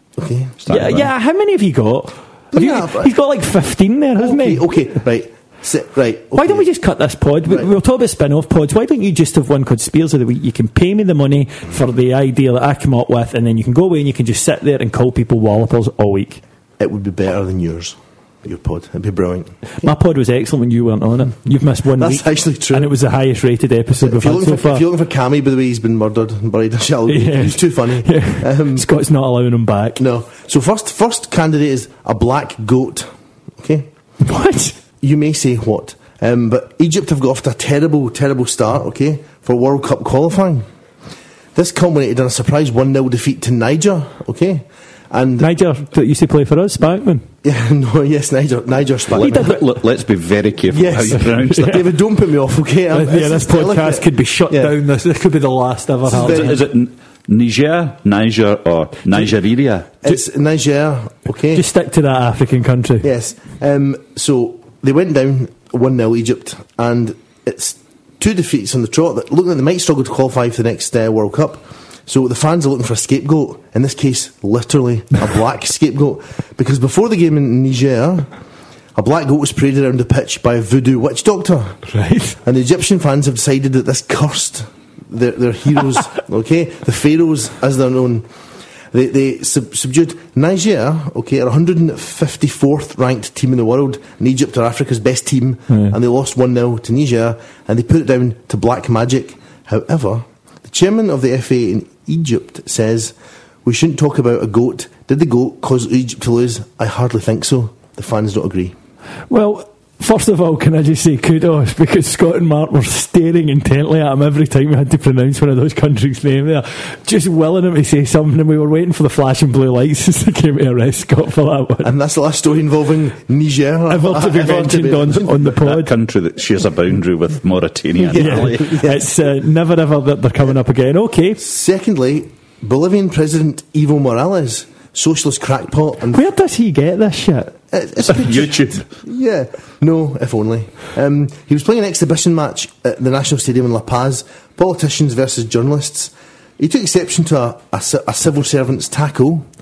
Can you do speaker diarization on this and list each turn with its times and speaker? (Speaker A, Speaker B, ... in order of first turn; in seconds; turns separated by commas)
Speaker A: 0.2-0.5, Speaker B: 0.6-1.1, Speaker C: 0.7-5.0, Speaker A: 2.5-3.1, Speaker A: 4.2-6.7, Speaker C: 6.3-16.4, Speaker A: 7.5-7.7, Speaker A: 16.8-19.9, Speaker C: 19.8-24.8, Speaker A: 21.9-22.9, Speaker A: 23.9-28.9, Speaker C: 27.1-30.0, Speaker A: 30.0-33.9, Speaker C: 34.2-34.8, Speaker A: 35.0-40.7, Speaker A: 41.5-45.5, Speaker C: 45.4-47.3, Speaker A: 47.4-49.5, Speaker B: 49.1-51.8, Speaker C: 49.2-49.6, Speaker A: 50.7-54.8, Speaker C: 51.2-51.8, Speaker C: 52.9-56.6, Speaker A: 56.1-56.5, Speaker B: 56.1-59.9, Speaker A: 60.0-61.6, Speaker C: 61.5-63.1, Speaker A: 63.0-78.3, Speaker A: 79.0-81.9, Speaker C: 81.9-82.4, Speaker A: 82.4-88.3, Speaker A: 88.9-108.8, Speaker C: 95.7-96.0, Speaker C: 109.3-121.9, Speaker A: 121.8-125.5, Speaker C: 123.9-125.9, Speaker B: 125.6-128.7, Speaker A: 128.0-129.1, Speaker C: 128.1-131.4, Speaker A: 131.4-136.2, Speaker C: 136.1-137.6, Speaker A: 137.7-149.5, Speaker B: 138.3-138.9